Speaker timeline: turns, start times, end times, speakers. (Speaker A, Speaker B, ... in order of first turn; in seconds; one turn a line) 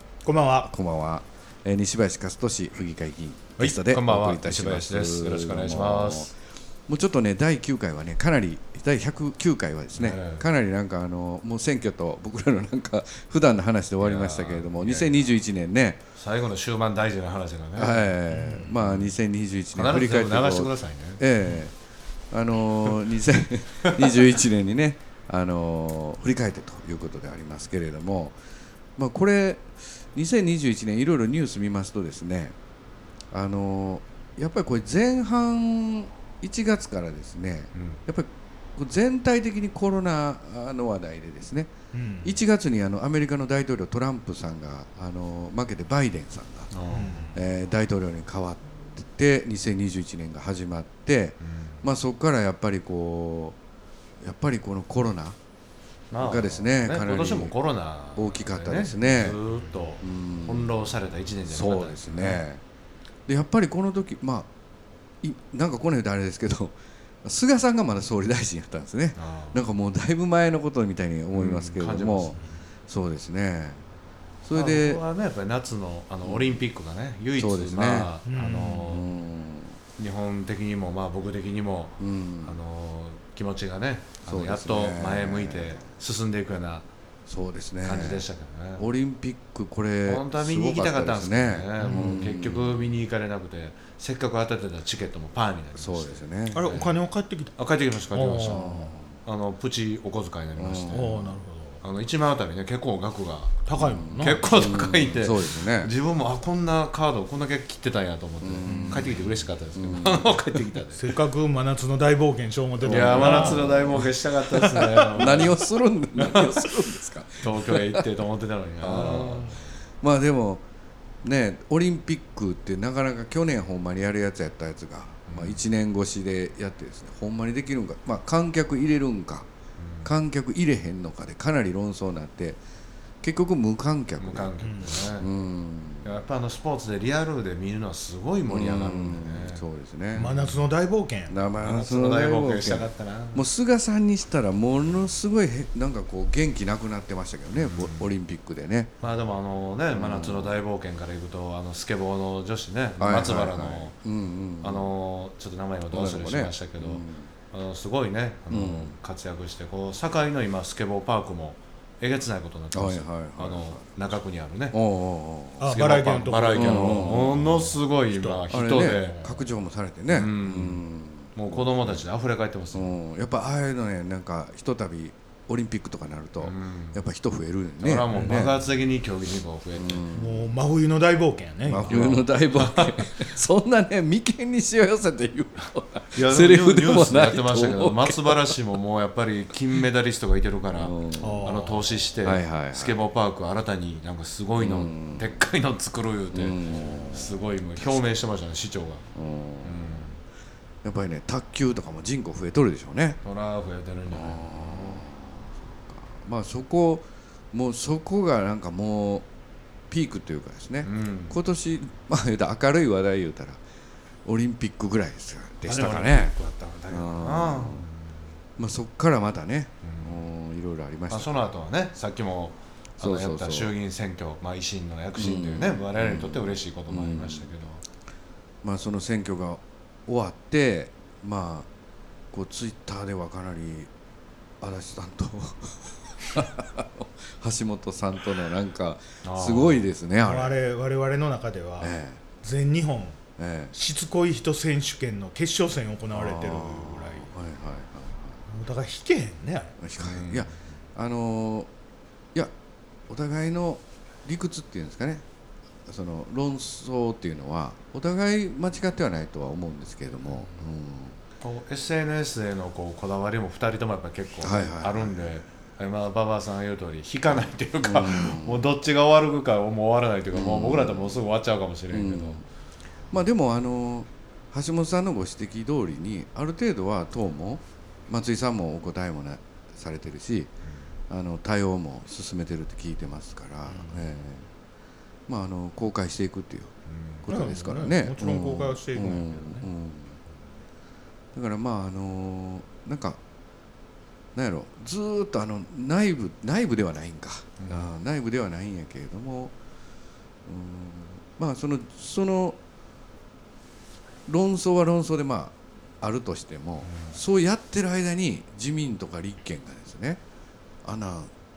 Speaker A: 0.2-0.7
Speaker B: 0.7-6.3
Speaker C: 3.6-6.3
Speaker B: 6.9-16.0
Speaker C: 9.9-10.5
Speaker C: 14.0-15.3
Speaker C: 16.1-19.1
Speaker B: 17.7-21.8
Speaker C: 19.7-21.6
Speaker B: 22.3-28.4
Speaker B: 29.0-32.5
Speaker B: 33.3-41.7
Speaker C: 37.7-38.0
Speaker A: 41.9-42.4
Speaker B: 42.2-46.7
Speaker C: 46.7-47.2
Speaker A: 46.9-47.4
Speaker B: 47.3-53.6
Speaker C: 51.4-51.9
Speaker B: 54.2-55.4
Speaker C: 56.1-62.4
Speaker B: 56.2-57.5
Speaker B: 58.1-59.4
Speaker B: 60.0-60.8
Speaker B: 61.5-62.6
Speaker B: 63.3-64.5
Speaker B: 65.2-73.8
Speaker C: 69.2-69.7
Speaker C: 71.3-72.4
Speaker B: 74.4-75.0
Speaker C: 74.5-79.1
Speaker B: 76.2-76.7
Speaker B: 77.3-78.1
Speaker A: 78.2-78.9
Speaker B: 78.8-79.8
Speaker C: 80.0-86.9
Speaker B: 82.0-82.6
Speaker B: 84.2-85.9
Speaker B: 87.3-93.0
Speaker C: 87.8-88.9
Speaker C: 90.0-97.0
Speaker A: 91.8-92.2
Speaker B: 95.7-96.8
Speaker A: 96.5-97.6
Speaker C: 97.5-98.7
Speaker A: 98.1-98.9
Speaker B: 98.4-99.2
Speaker C: 99.2-101.1
Speaker B: 100.5-101.3
Speaker A: 100.9-101.8
Speaker C: 101.8-103.6
Speaker A: 103.6-104.4
Speaker B: 103.8-105.9
Speaker C: 104.2-111.1
Speaker B: 108.4-110.3
Speaker A: 108.7-109.2
Speaker A: 110.9-114.1
Speaker B: 112.8-114.1
Speaker C: 112.8-115.7
Speaker A: 114.6-115.4
Speaker B: 115.1-118.2
Speaker C: 116.2-116.6
Speaker C: 117.4-119.7
Speaker B: 118.8-120.6
Speaker B: 121.2-129.5
Speaker C: 125.3-125.6
Speaker C: 129.8-130.2
Speaker B: 130.0-132.6
Speaker B: 133.2-136.1
Speaker C: 134.2-135.3
Speaker A: 134.6-135.1
Speaker C: 136.0-140.6
Speaker B: 138.5-140.4
Speaker A: 140.2-141.4
Speaker B: 141.3-148.9
Speaker C: 141.6-143.4
Speaker C: 147.5-148.1
Speaker C: 149.0-153.9
Speaker B: 149.9-150.6
Speaker B: 153.0-154.9
Speaker C: 154.6-164.8
Speaker B: 155.9-157.3
Speaker B: 158.5-158.9
Speaker B: 162.7-163.8
Speaker B: 164.7-165.8
Speaker A: 165.6-167.5
Speaker C: 165.7-169.4
Speaker B: 166.5-167.8
Speaker A: 168.1-168.5
Speaker B: 168.5-172.1
Speaker C: 170.1-172.9
Speaker B: 172.7-178.6
Speaker C: 176.4-177.0
Speaker C: 177.8-180.1
Speaker B: 179.7-180.5
Speaker A: 180.1-182.1
Speaker B: 181.6-188.6
Speaker C: 181.8-183.2
Speaker C: 186.1-199.0
Speaker B: 190.7-191.5
Speaker A: 191.2-191.9
Speaker B: 192.2-193.0
Speaker B: 194.6-195.3
Speaker B: 196.3-198.1
Speaker B: 199.1-200.1
Speaker C: 199.6-200.2
Speaker B: 200.8-203.2
Speaker C: 203.2-205.0
Speaker B: 204.1-209.3
Speaker B: 209.9-213.6
Speaker C: 210.8-211.4
Speaker B: 214.2-216.3
Speaker C: 215.6-218.2
Speaker B: 216.9-217.8
Speaker B: 218.6-221.4
Speaker C: 219.8-220.2
Speaker C: 221.1-227.8
Speaker B: 223.0-223.7
Speaker B: 225.1-227.5
Speaker B: 228.6-231.7
Speaker B: 232.3-233.9
Speaker B: 234.6-240.6
Speaker C: 239.2-239.9
Speaker A: 240.2-243.2
Speaker B: 241.8-242.2
Speaker B: 243.4-243.7
Speaker A: 243.7-247.3
Speaker B: 246.1-248.4
Speaker A: 248.5-249.7
Speaker B: 249.8-251.7
Speaker C: 250.0-250.5
Speaker B: 253.1-255.2
Speaker B: 255.9-261.2
Speaker C: 261.4-272.4
Speaker B: 264.4-265.4
Speaker B: 267.8-268.7
Speaker B: 270.3-271.2
Speaker B: 271.9-272.4
Speaker B: 273.1-280.5
Speaker B: 281.1-284.5
Speaker C: 283.7-284.0
Speaker B: 285.3-290.2
Speaker C: 286.9-287.2
Speaker A: 287.3-289.7
Speaker B: 291.3-293.2
Speaker B: 294.3-299.5
Speaker C: 297.6-297.9
Speaker B: 300.4-302.6
Speaker B: 304.2-310.2
Speaker C: 306.8-307.2
Speaker B: 310.8-311.3